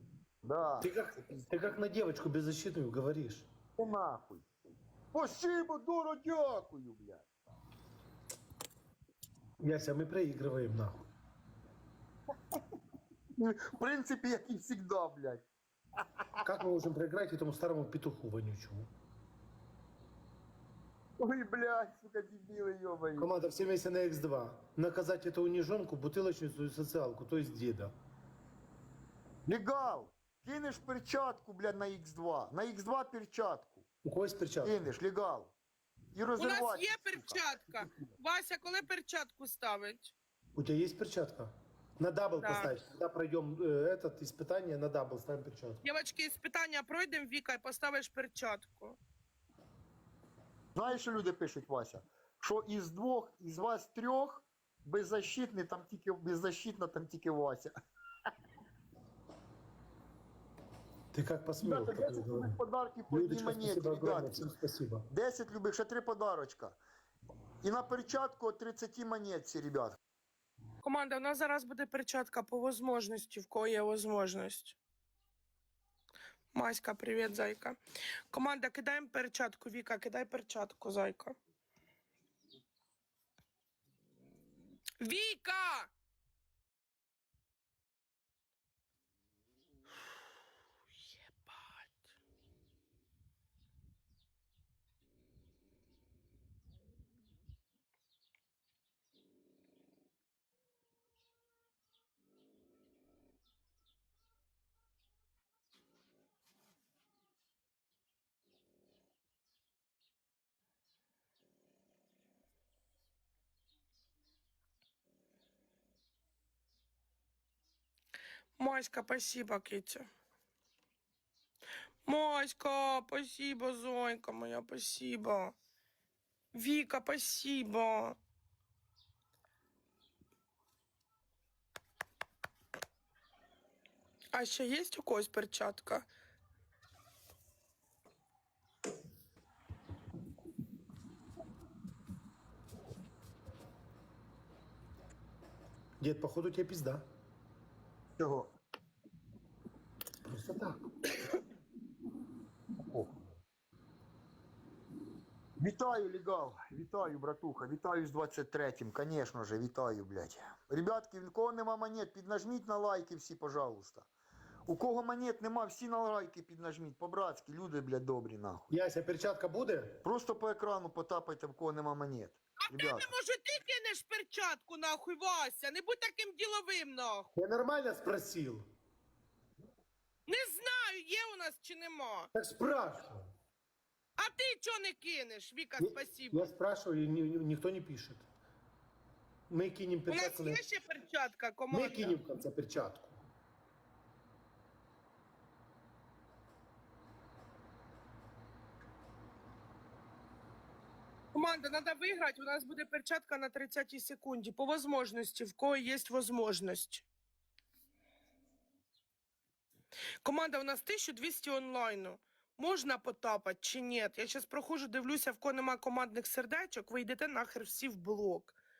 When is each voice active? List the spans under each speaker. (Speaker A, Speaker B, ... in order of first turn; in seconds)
Speaker A: 0.4-1.5, 3.8-4.5, 5.1-7.3, 13.4-15.4, 21.2-23.3, 29.5-33.9, 34.6-35.5, 36.1-38.1, 50.7-57.7, 61.6-64.5, 65.1-66.8, 67.6-70.0, 148.2-148.5, 152.9-153.2, 155.6-164.1, 164.7-168.7, 170.0-173.1
Speaker B: 0.8-3.5, 9.6-11.0, 16.4-18.9, 23.2-27.9, 34.0-34.8, 40.5-45.8, 61.1-62.6, 63.1-65.0, 146.0-147.0, 150.2-150.8, 168.7-170.0, 177.3-178.6, 182.3-183.3, 185.8-188.3, 189.5-190.6, 191.7-193.2
Speaker C: 36.4-40.1, 42.4-42.7, 45.8-49.0, 70.8-74.8, 76.5-77.8, 78.3-81.3, 85.0-85.9, 91.0-91.8, 118.6-120.1, 122.0-125.5, 126.5-128.2, 134.3-136.1, 172.7-177.3, 180.3-182.3, 184.2-186.5, 190.1-192.2, 201.3-207.1, 210.2-218.6